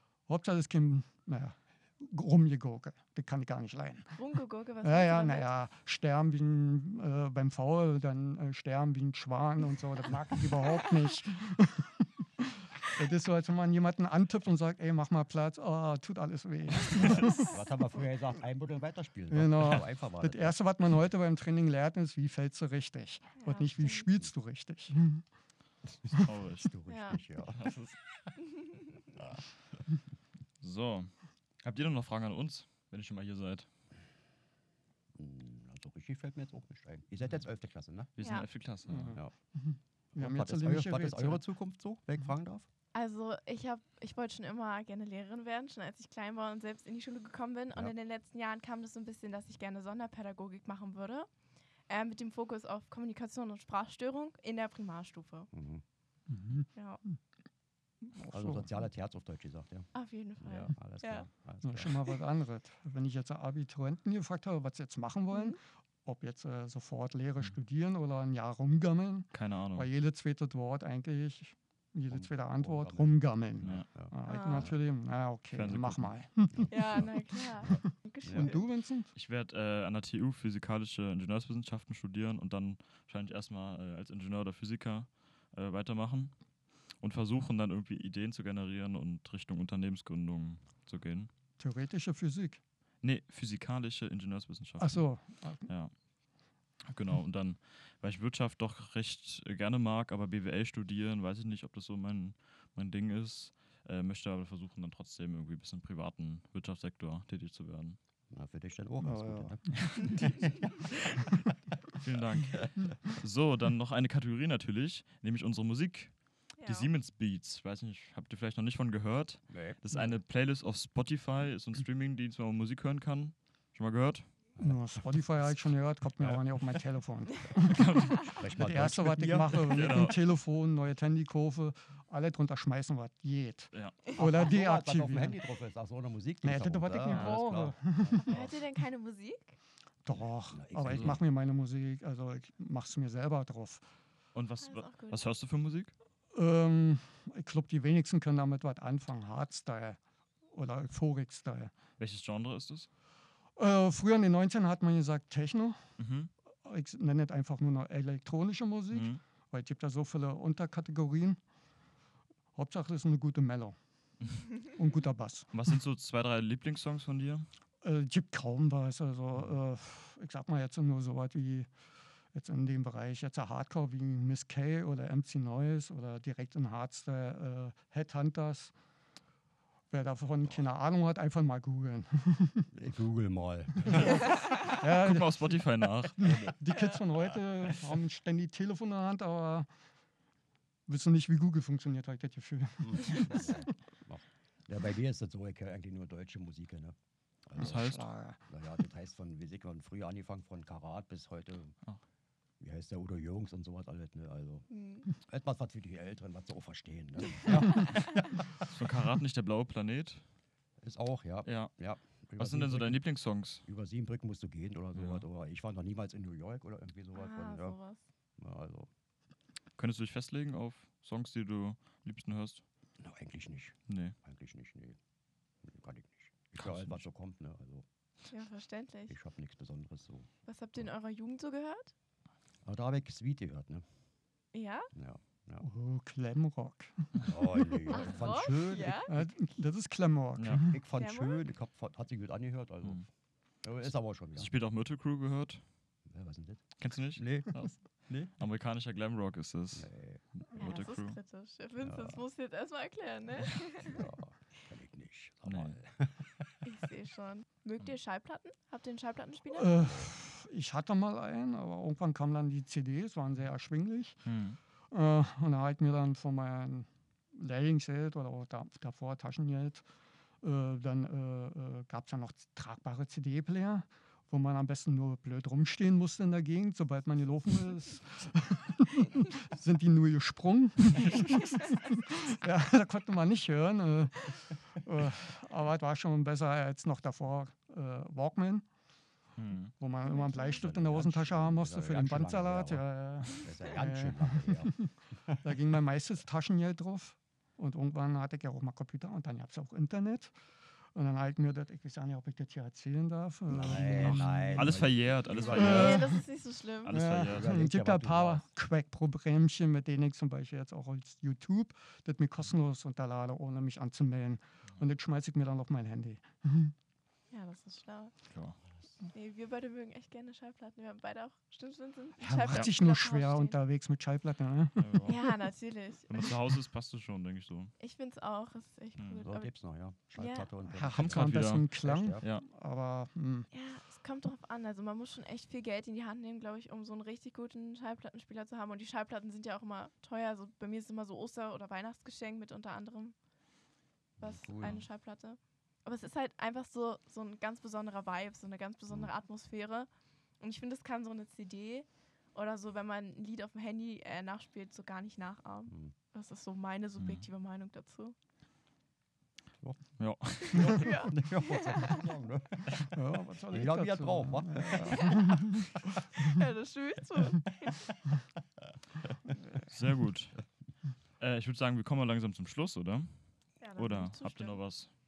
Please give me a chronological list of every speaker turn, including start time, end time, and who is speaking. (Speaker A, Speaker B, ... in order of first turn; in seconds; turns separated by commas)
Speaker A: 0.3-4.2, Speaker B: 4.2-5.5, Speaker A: 4.8-17.6, Speaker C: 16.9-20.5, Speaker A: 19.3-25.2, Speaker B: 23.4-24.1, Speaker C: 26.1-27.7, Speaker D: 26.2-26.7, Speaker B: 26.9-27.2, Speaker D: 27.5-28.0, Speaker D: 30.6-33.7, Speaker C: 35.1-38.2, Speaker D: 38.2-39.2, Speaker B: 38.2-38.5, Speaker A: 38.9-41.4, Speaker C: 40.1-42.7, Speaker B: 42.9-51.3, Speaker B: 51.9-55.5, Speaker C: 55.5-55.8, Speaker A: 56.3-56.7, Speaker B: 56.7-57.0, Speaker A: 58.0-58.7, Speaker C: 58.3-59.9, Speaker B: 59.9-61.3, Speaker C: 60.4-62.1, Speaker A: 61.6-77.8, Speaker B: 65.3-65.6, Speaker D: 69.3-69.9, Speaker C: 72.1-74.7, Speaker D: 73.6-73.9, Speaker B: 74.3-74.7, Speaker D: 75.5-76.1, Speaker B: 76.7-78.7, Speaker C: 77.6-78.5, Speaker A: 78.3-79.1, Speaker D: 79.1-86.3, Speaker D: 87.0-91.3, Speaker A: 91.6-92.6, Speaker D: 93.0-95.1, Speaker A: 94.8-95.7, Speaker D: 95.7-95.9, Speaker D: 96.9-108.0, Speaker C: 108.3-111.0, Speaker A: 109.0-110.3, Speaker D: 112.0-124.2, Speaker B: 116.6-116.9, Speaker C: 119.5-119.8, Speaker A: 124.6-135.4, Speaker D: 127.6-128.5, Speaker C: 128.4-130.1, Speaker D: 129.5-130.2, Speaker D: 133.7-134.0, Speaker C: 134.2-138.5, Speaker A: 136.4-138.3, Speaker D: 137.1-137.4, Speaker B: 138.1-139.6, Speaker A: 140.0-143.8, Speaker C: 140.5-141.2, Speaker D: 140.8-141.2, Speaker D: 144.3-145.9, Speaker B: 144.6-145.2, Speaker A: 146.3-150.0, Speaker A: 150.5-151.7, Speaker D: 152.0-152.9, Speaker A: 153.6-155.8, Speaker D: 156.0-156.3, Speaker A: 156.6-161.4, Speaker D: 158.9-159.2, Speaker A: 162.5-163.8, Speaker A: 164.6-165.5, Speaker D: 165.5-167.4, Speaker A: 167.8-171.7, Speaker A: 172.3-178.7, Speaker A: 179.9-182.7, Speaker C: 182.7-184.4, Speaker A: 183.8-185.6, Speaker D: 183.9-186.4, Speaker A: 186.2-189.7, Speaker C: 186.2-186.5, Speaker A: 190.9-193.7, Speaker C: 192.8-196.9, Speaker C: 197.4-197.9, Speaker A: 197.6-198.4, Speaker D: 197.6-198.1, Speaker C: 198.5-201.7, Speaker C: 202.6-208.4, Speaker B: 204.7-205.1, Speaker D: 208.6-210.2, Speaker C: 210.8-213.0, Speaker D: 211.4-211.7, Speaker D: 212.4-213.6, Speaker C: 213.7-217.8, Speaker D: 214.9-215.2, Speaker B: 217.1-218.0, Speaker C: 218.4-218.9, Speaker D: 219.8-222.6, Speaker C: 223.0-225.0, Speaker D: 223.9-224.1, Speaker C: 225.6-227.8, Speaker D: 226.6-227.0, Speaker B: 228.3-229.2, Speaker C: 229.1-230.3, Speaker B: 230.4-231.9, Speaker C: 232.6-233.8, Speaker B: 234.5-234.9, Speaker C: 234.9-235.7, Speaker A: 235.6-238.1, Speaker C: 237.2-239.2, Speaker B: 237.9-239.1, Speaker A: 239.1-240.8, Speaker D: 240.4-240.6, Speaker C: 240.6-243.0, Speaker B: 240.9-241.4, Speaker C: 243.6-244.5, Speaker D: 244.3-245.6, Speaker C: 246.1-248.3, Speaker D: 246.8-251.2, Speaker C: 249.8-250.2, Speaker B: 250.5-254.1, Speaker C: 251.8-252.2, Speaker C: 253.8-256.5, Speaker D: 255.4-255.8, Speaker B: 256.6-259.8, Speaker A: 259.5-264.2, Speaker C: 259.8-260.1, Speaker D: 264.2-264.6, Speaker A: 264.9-269.8, Speaker A: 270.4-288.6, Speaker D: 289.4-289.7, Speaker A: 289.8-300.3, Speaker B: 290.0-290.6, Speaker C: 290.4-295.4, Speaker A: 300.9-304.8, Speaker C: 303.5-306.0, Speaker D: 303.6-306.2, Speaker B: 305.3-307.0, Speaker A: 305.4-306.2, Speaker D: 306.8-307.6, Speaker A: 306.9-316.7, Speaker C: 307.2-308.4, Speaker B: 317.3-318.1, Speaker D: 318.3-318.6, Speaker B: 319.1-323.6, Speaker A: 322.2-325.3, Speaker D: 324.8-325.2, Speaker B: 325.0-326.4, Speaker D: 326.1-327.7, Speaker B: 327.8-329.5, Speaker D: 329.0-329.3, Speaker C: 329.2-332.2, Speaker B: 330.1-330.5, Speaker A: 330.7-333.5, Speaker D: 330.9-332.4, Speaker B: 333.5-343.1, Speaker C: 344.2-344.8, Speaker B: 344.2-349.9, Speaker B: 350.4-358.1, Speaker D: 357.0-357.2, Speaker D: 360.0-360.8, Speaker C: 360.4-362.9, Speaker B: 360.4-362.1, Speaker A: 360.6-360.9, Speaker A: 362.8-365.8, Speaker C: 363.5-365.4, Speaker B: 364.9-365.2, Speaker B: 366.1-367.8, Speaker D: 369.7-370.4, Speaker D: 371.2-373.2, Speaker B: 373.6-374.6, Speaker D: 373.8-374.9